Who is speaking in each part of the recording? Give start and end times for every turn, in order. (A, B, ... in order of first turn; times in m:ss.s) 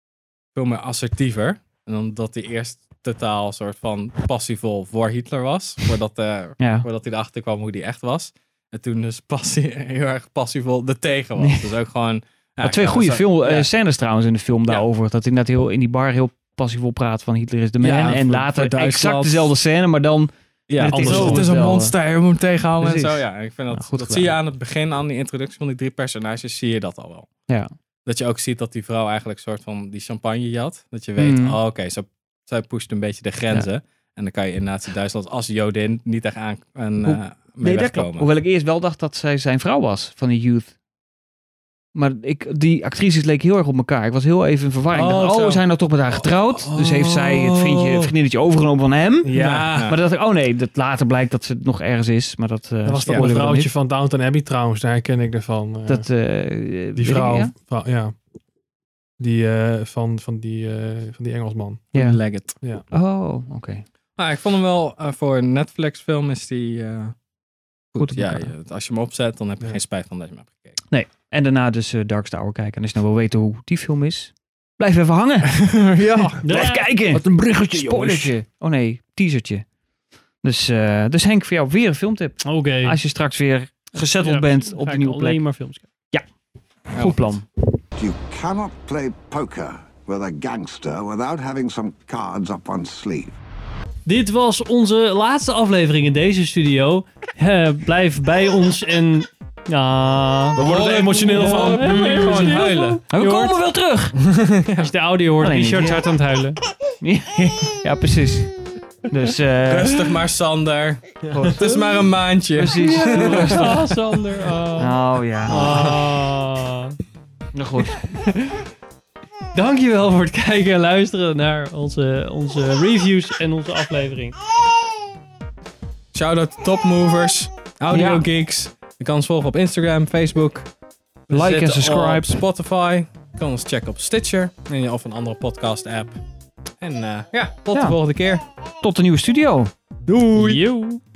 0:00.5-0:13.7 A
0:06.6-0:06.9 B
0:11.4-0:11.8 B
0:12.6-0:22.0 B
0:17.8-0:19.5 A
0:20.7-0:27.3 A
0:20.9-0:21.5 C
0:22.8-0:24.4 B
0:28.1-0:38.3 A
0:31.2-0:31.6 B
0:37.0-0:40.7 B
0:41.9-0:53.7 B
0:44.9-0:45.6 A
0:46.7-0:48.0 C
0:49.2-0:49.9 C
0:49.4-0:50.0 A
0:52.9-0:56.0 C
0:53.0-0:53.4 A
0:55.9-0:57.5 B
0:57.0-0:58.1 C
0:59.2-1:01.9 C
1:01.9-1:02.2 B
1:02.0-1:02.6 A
1:02.9-1:03.8 B
1:04.2-1:07.1 A
1:07.9-1:08.5 B
1:08.0-1:10.8 A
1:10.9-1:15.8 B
1:15.7-1:16.4 A
1:16.4-1:19.6 B
1:16.4-1:16.9 D
1:17.1-1:18.3 C
1:20.4-1:25.4 B
1:22.4-1:23.0 D
1:24.0-1:25.9 D
1:26.9-1:27.3 A
1:27.0-1:27.4 B
1:27.9-1:33.4 E
1:34.1-1:43.6 D
1:40.6-1:42.5 C
1:40.6-1:43.0 A
1:43.1-1:44.1 B
1:44.3-1:44.9 A
1:44.7-1:46.6 D
1:45.4-1:46.1 B
1:47.0-1:48.5 B
1:49.1-1:50.2 B
1:49.6-1:53.6 A
1:51.3-1:52.0 B
1:52.6-1:53.8 B
1:52.8-1:54.9 D
1:54.8-1:55.9 B
1:55.5-1:57.0 D
1:57.5-1:58.0 B
1:59.5-2:04.4 D
2:06.1-2:10.7 A
2:07.9-2:08.3 B
2:11.3-2:16.2 A
2:11.3-2:12.4 B
2:16.8-2:18.4 A
2:17.7-2:18.0 B
2:18.8-2:20.6 B
2:20.3-2:21.0 D